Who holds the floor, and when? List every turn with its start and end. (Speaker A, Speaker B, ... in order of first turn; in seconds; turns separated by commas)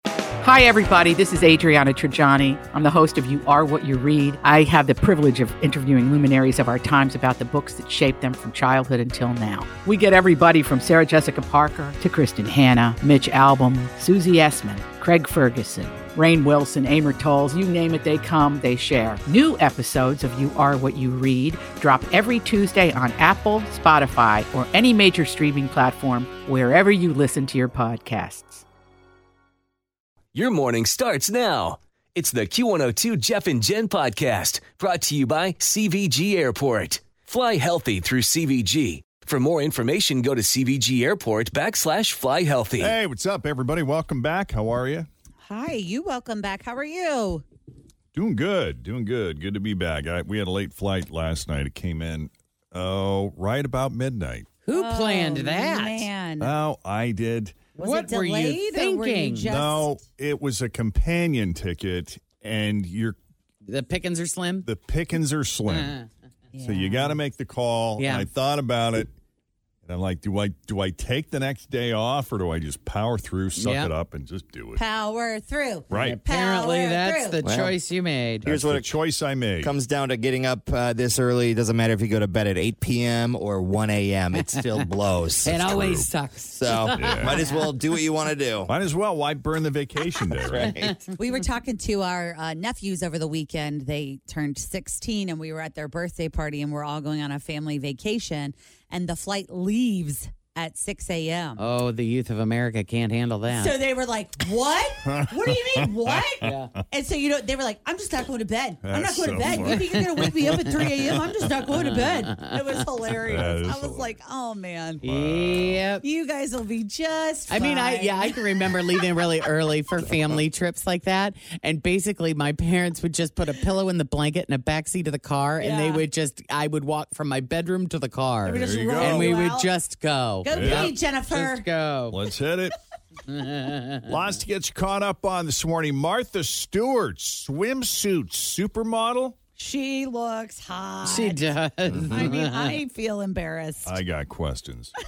Speaker A: 0.4-28.6, Speaker B: 30.3-42.9, Speaker C: 42.8-45.1, Speaker D: 45.4-47.4, Speaker C: 48.1-54.5, Speaker E: 54.6-56.1, Speaker D: 54.7-56.5, Speaker C: 56.4-57.6, Speaker D: 57.8-59.9, Speaker E: 57.8-59.5, Speaker C: 59.5-63.2, Speaker E: 63.6-64.7, Speaker C: 64.6-66.0, Speaker E: 65.7-66.0, Speaker D: 66.5-67.2, Speaker C: 66.6-69.1, Speaker E: 68.0-68.3, Speaker C: 69.8-74.8, Speaker E: 73.5-73.9, Speaker D: 74.8-77.4, Speaker C: 75.9-76.2, Speaker E: 75.9-78.5, Speaker F: 77.4-77.8, Speaker C: 78.4-79.7, Speaker F: 78.4-78.9, Speaker F: 79.6-85.6, Speaker E: 85.4-87.6, Speaker C: 85.6-86.1, Speaker F: 86.5-88.7, Speaker C: 86.9-87.4, Speaker C: 88.7-90.7, Speaker F: 90.4-91.0, Speaker E: 90.5-91.0, Speaker D: 91.1-101.6, Speaker E: 101.6-103.7, Speaker D: 103.5-115.0, Speaker C: 105.0-106.8, Speaker E: 106.4-106.7, Speaker C: 108.8-110.5, Speaker C: 113.2-114.2, Speaker C: 115.0-115.8, Speaker E: 115.0-116.0, Speaker D: 116.0-118.7, Speaker E: 117.5-132.2, Speaker D: 125.6-126.0, Speaker D: 128.5-129.7, Speaker C: 128.5-129.5, Speaker D: 130.4-131.7, Speaker C: 130.5-130.9, Speaker C: 132.1-132.8, Speaker E: 133.3-134.1, Speaker C: 134.1-139.4, Speaker D: 139.6-141.4, Speaker E: 141.1-142.8, Speaker D: 142.0-144.0, Speaker C: 143.8-144.9